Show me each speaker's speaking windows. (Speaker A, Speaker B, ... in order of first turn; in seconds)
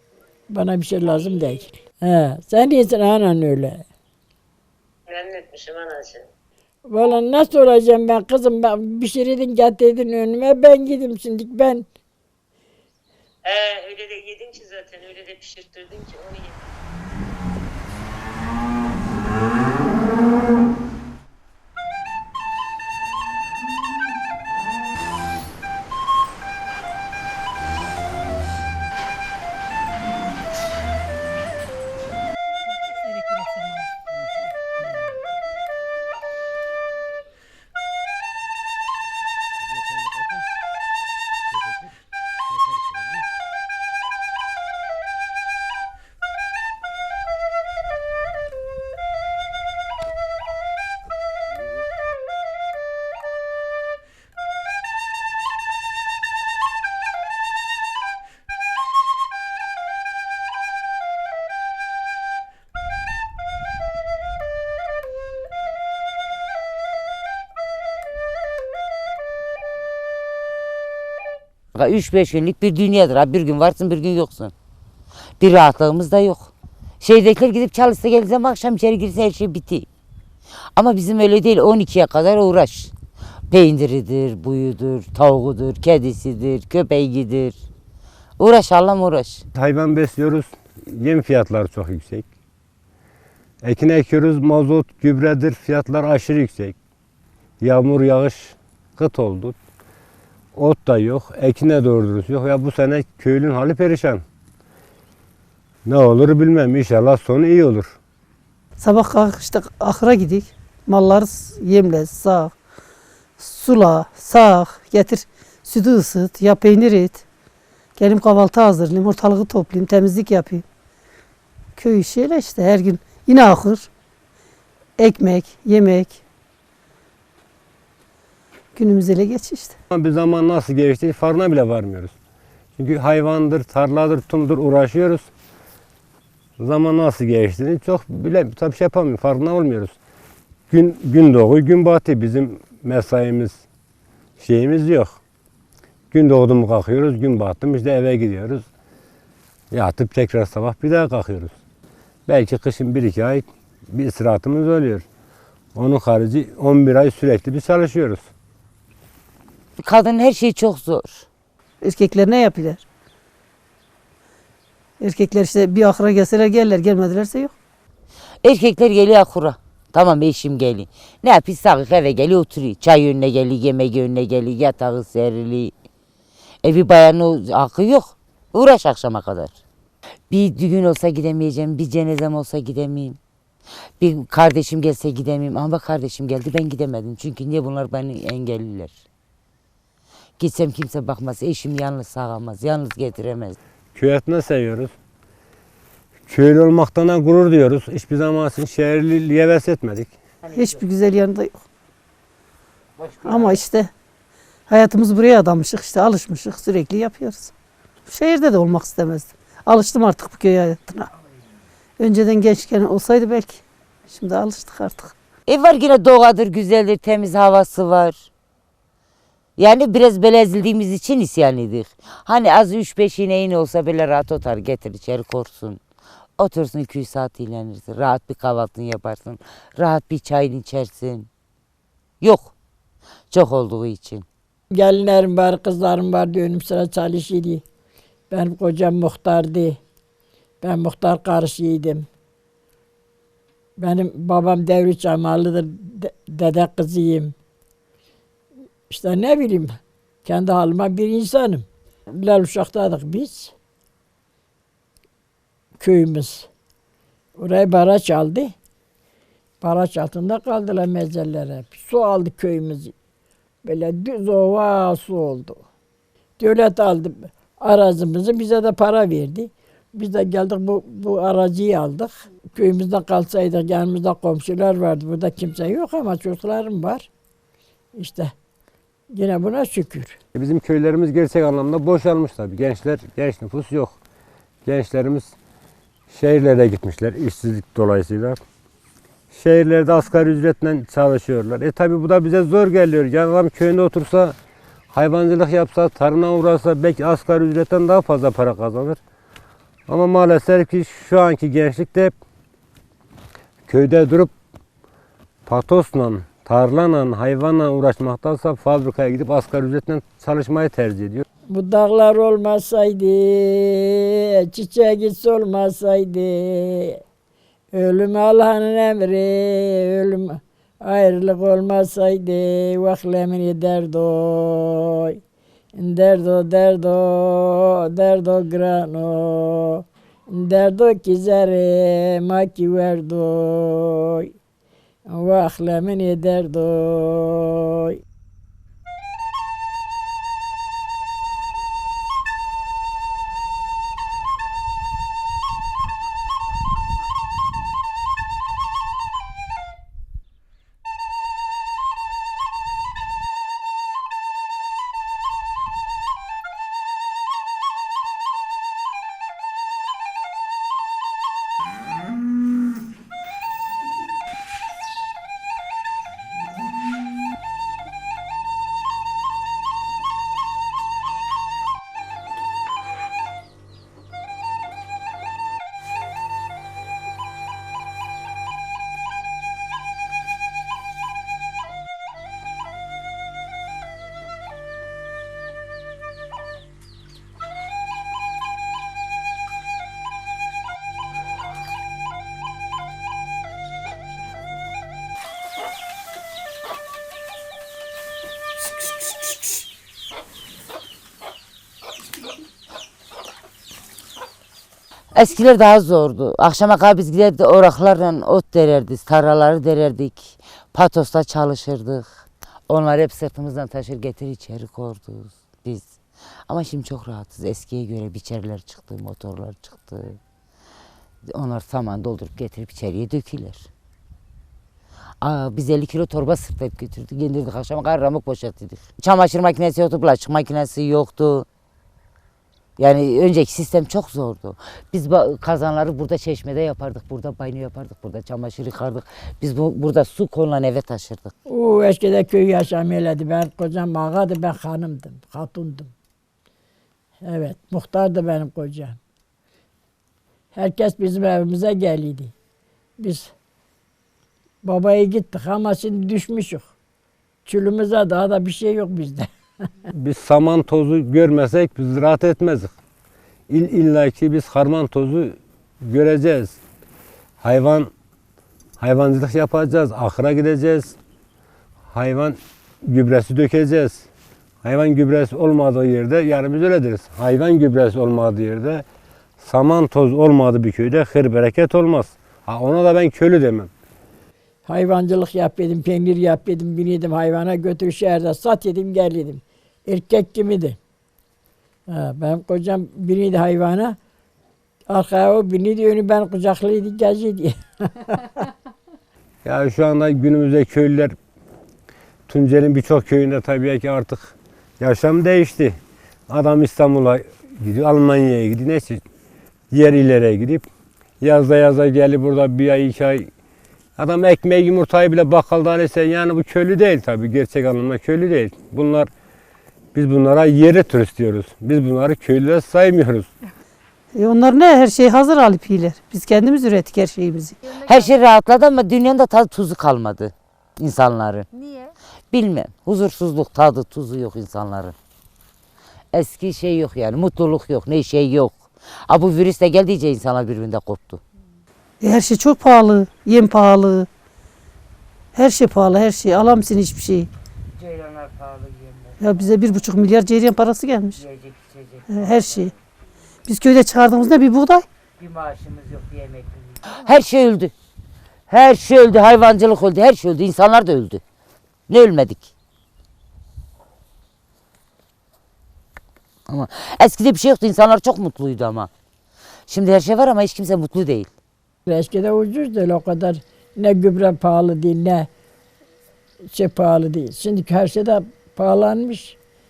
Speaker A: 0.5-3.8, 6.9-11.8, 234.7-237.6, 238.3-239.8, 240.6-242.1, 243.8-247.3, 248.9-253.5, 255.8-256.5, 257.4-258.5, 259.6-262.9, 263.6-265.6, 266.4-277.1, 277.9-278.3, 279.1-280.2, 311.5-317.0, 317.7-325.2, 325.7-334.3, 335.1-338.0, 441.5-445.9, 447.2-449.0, 450.5-452.3, 453.0-453.3, 454.6-456.7, 457.4-459.3, 484.6-490.8, 491.9-494.0, 494.9-498.4, 571.9-575.3, 576.5-579.4
Speaker B: 5.1-6.2, 13.4-16.6
Speaker C: 71.7-74.5, 75.4-76.5, 77.0-79.9, 80.8-82.9, 83.5-87.6, 88.4-89.4, 159.8-161.2, 168.4-175.7, 176.6-179.5, 180.3-183.2, 184.0-188.9, 190.4-193.6, 203.3-203.6, 215.5-218.2, 219.6-225.8, 226.4-231.3, 232.2-232.5, 233.3-234.2, 405.1-412.1, 412.7-415.9, 416.5-420.2, 421.3-423.7, 425.2-431.4, 432.8-441.3, 527.7-531.5, 532.3-534.9, 536.1-541.2, 547.8-549.1, 551.2-552.6, 555.2-557.7, 558.5-561.2, 561.9-562.5, 566.5-568.9, 569.7-571.3
Speaker D: 89.5-92.3, 93.6-96.8, 97.6-99.6, 100.5-104.2, 105.8-108.0, 129.9-132.1, 132.8-135.3, 136.6-139.9, 140.7-143.6, 144.4-145.2, 146.1-148.6, 149.7-151.5, 152.3-155.1, 155.7-158.2, 193.9-194.9, 196.3-200.1, 280.3-284.0, 284.6-285.3, 286.1-288.4, 289.3-294.3, 294.9-299.0, 299.9-302.1, 303.7-304.3, 305.5-311.2, 459.9-462.7, 463.5-466.6, 467.4-467.9, 468.8-471.0, 471.9-474.1, 474.6-478.8, 479.4-483.7, 499.4-501.1, 502.3-505.8, 506.3-509.0, 509.7-510.7, 511.2-513.3, 514.0-519.1, 519.9-523.3
Speaker E: 108.8-112.5, 113.4-117.2, 118.0-120.6, 121.8-123.9, 125.0-126.2, 128.8-129.7, 161.8-162.8, 165.0-167.5, 200.5-201.6, 203.2-203.9, 204.7-207.5, 208.1-211.1, 212.0-215.1, 524.1-527.6, 542.0-544.1, 545.3-547.3, 549.2-551.2, 552.1-552.7, 553.5-554.9